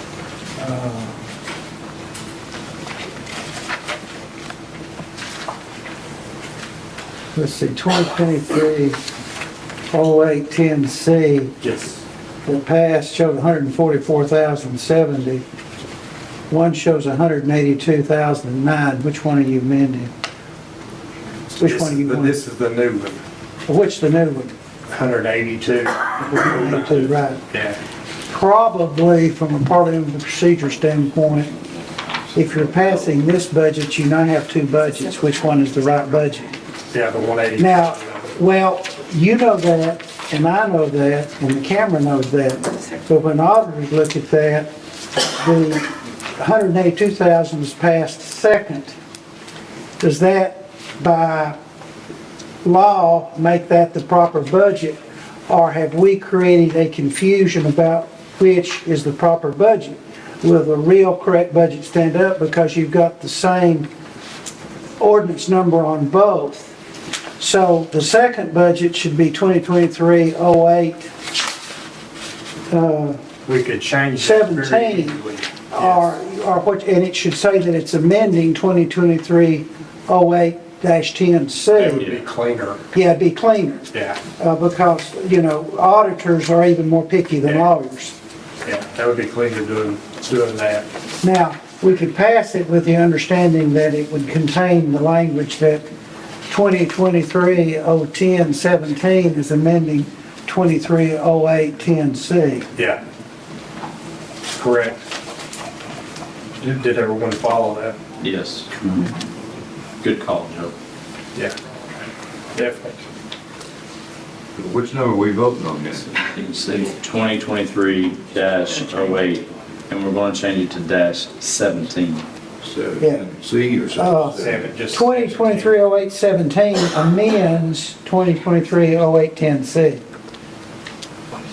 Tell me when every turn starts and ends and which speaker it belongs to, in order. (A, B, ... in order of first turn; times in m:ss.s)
0:00.6-0:01.2 A
0:07.4-0:09.0 A
0:09.9-0:11.6 A
0:11.6-0:12.0 B
0:12.4-0:15.4 A
0:16.5-0:20.1 A
0:21.5-0:23.2 B
0:21.6-0:22.4 A
0:23.7-0:24.6 A
0:24.9-0:27.8 B
0:26.2-0:27.4 A
0:28.3-0:31.5 A
0:32.3-0:36.5 A
0:36.9-0:38.2 B
0:37.6-0:44.7 A
0:45.2-0:49.0 A
0:50.0-0:51.6 A
0:52.6-0:55.0 A
0:55.5-1:03.9 A
1:05.0-1:06.7 A
1:07.4-1:11.1 A
1:12.7-1:13.2 A
1:13.5-1:16.0 B
1:14.2-1:15.2 A
1:15.7-1:22.1 A
1:21.7-1:22.8 B
1:22.9-1:23.8 A
1:23.9-1:24.2 B
1:24.4-1:28.2 A
1:28.6-1:30.9 B
1:31.2-1:35.8 A
1:36.5-1:42.7 A
1:42.8-1:43.0 B
1:44.6-1:45.0 B
1:46.6-1:48.0 B
1:48.2-1:49.1 C
1:50.0-1:50.7 C
1:52.5-1:53.0 B
1:54.6-1:56.1 D
1:56.3-2:02.3 C
2:02.6-2:04.6 D
2:03.0-2:03.3 A
2:03.9-2:10.0 A
2:04.3-2:05.8 B